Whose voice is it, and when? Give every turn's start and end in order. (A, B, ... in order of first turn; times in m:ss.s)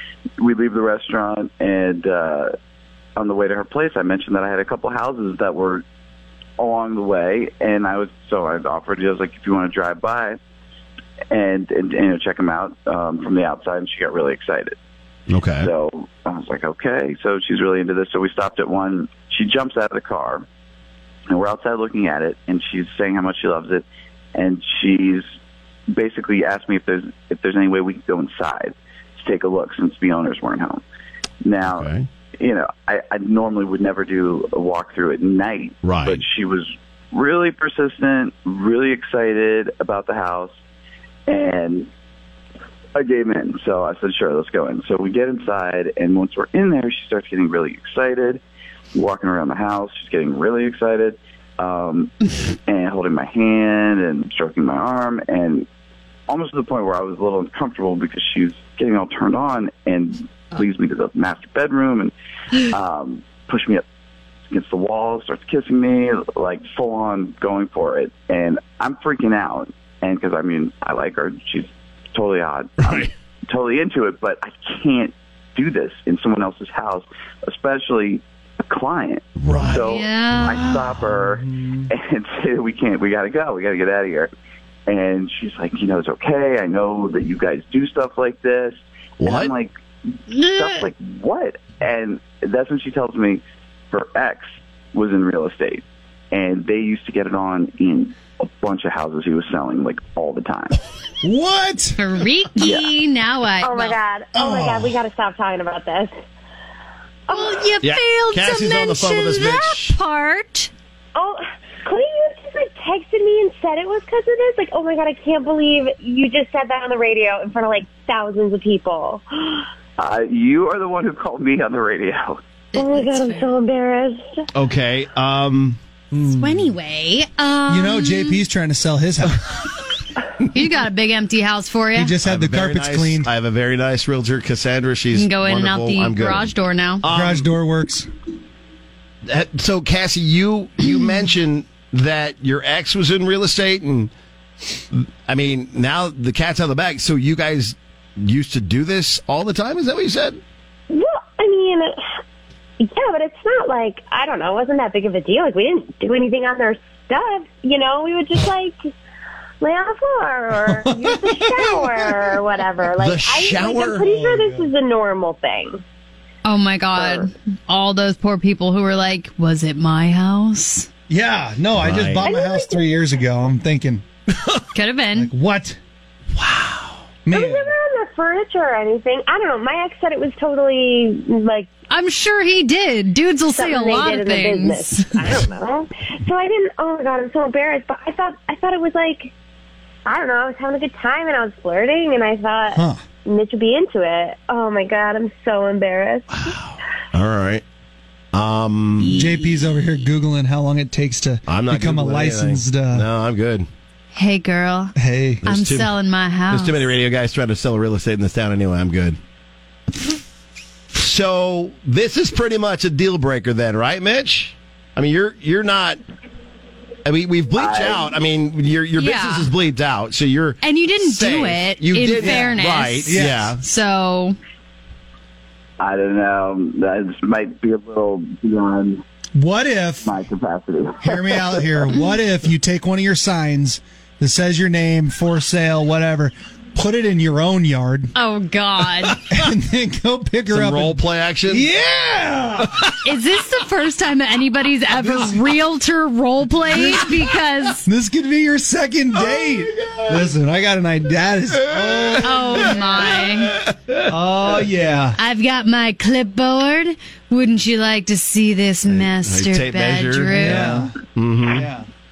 0:00.4-0:02.5 A
0:03.2-0:05.8 A
0:06.6-0:10.4 A
0:11.3-0:14.8 A
0:15.3-0:15.7 B
0:15.6-0:20.4 A
0:21.3-0:25.2 A
0:25.9-0:30.8 A
0:31.4-0:40.6 A
0:31.7-0:32.1 B
0:35.8-0:36.2 B
0:41.3-0:41.9 A
0:43.0-0:48.4 A
0:48.9-0:55.7 A
0:56.3-1:03.8 A
1:04.5-1:24.3 A
1:12.8-1:13.1 B
1:19.4-1:20.7 B
1:19.9-1:20.9 C
1:21.1-1:21.9 D
1:24.9-1:29.7 A
1:29.2-1:29.5 B
1:30.3-1:30.9 C
1:30.4-1:40.8 A
1:41.2-1:42.0 D
1:42.0-1:44.0 C
1:42.6-1:42.9 A
1:43.6-1:46.1 E
1:44.4-1:45.0 D
1:47.3-1:47.7 E
1:47.3-1:50.7 C
1:47.8-1:50.0 B
1:51.2-1:59.7 E
2:00.0-2:02.4 A
2:02.7-2:03.5 C
2:02.8-2:04.4 E
2:04.5-2:05.8 B
2:06.1-2:06.7 D
2:06.2-2:08.4 C
2:07.7-2:09.4 D
2:10.5-2:12.2 C
2:12.0-2:13.3 D
2:12.2-2:17.5 B
2:15.1-2:17.1 C
2:17.1-2:18.1 D
2:19.3-2:24.1 B
2:24.9-2:30.4 B
2:30.9-2:32.2 E
2:32.8-2:38.9 E
2:39.6-2:45.8 E
2:40.6-2:42.4 D
2:43.0-2:44.1 B
2:44.0-2:44.7 D
2:46.4-2:50.9 C
2:47.0-2:47.3 E
2:51.1-2:54.0 D
2:51.8-2:52.3 B
2:52.2-2:52.8 E
2:54.7-2:55.3 C
2:55.2-2:55.8 D
2:56.4-2:57.0 B
2:57.3-2:57.7 D
2:57.3-3:01.7 E
3:01.9-3:05.3 C
3:03.5-3:09.3 E
3:10.1-3:16.5 E
3:12.7-3:13.0 D
3:16.4-3:17.6 B
3:18.3-3:19.1 B
3:19.0-3:20.0 C
3:19.1-3:23.0 D
3:21.5-3:23.7 B
3:24.1-3:24.9 C
3:25.0-3:25.5 D
3:25.4-3:26.0 B
3:25.5-3:26.9 C
3:26.5-3:29.2 B
3:30.9-3:36.0 B
3:37.0-3:43.6 B
3:37.6-3:38.2 A
3:39.0-3:39.5 C
3:40.6-3:44.4 C
3:42.2-3:42.5 D
3:43.1-3:43.5 D
3:45.8-3:49.0 A
3:49.4-3:50.1 D
3:50.0-3:51.8 A
3:51.0-3:58.1 D
3:58.2-3:59.2 C
3:59.3-4:02.7 D
4:00.5-4:01.7 B
4:02.6-4:02.9 B
4:03.0-4:07.9 C
4:05.0-4:05.4 D
4:06.7-4:07.0 D
4:07.9-4:13.1 D
4:09.2-4:10.2 B
4:11.7-4:14.0 B
4:12.2-4:13.6 C
4:14.1-4:15.2 D
4:15.2-4:20.9 C
4:18.9-4:21.7 B
4:20.4-4:20.9 D
4:21.5-4:21.9 D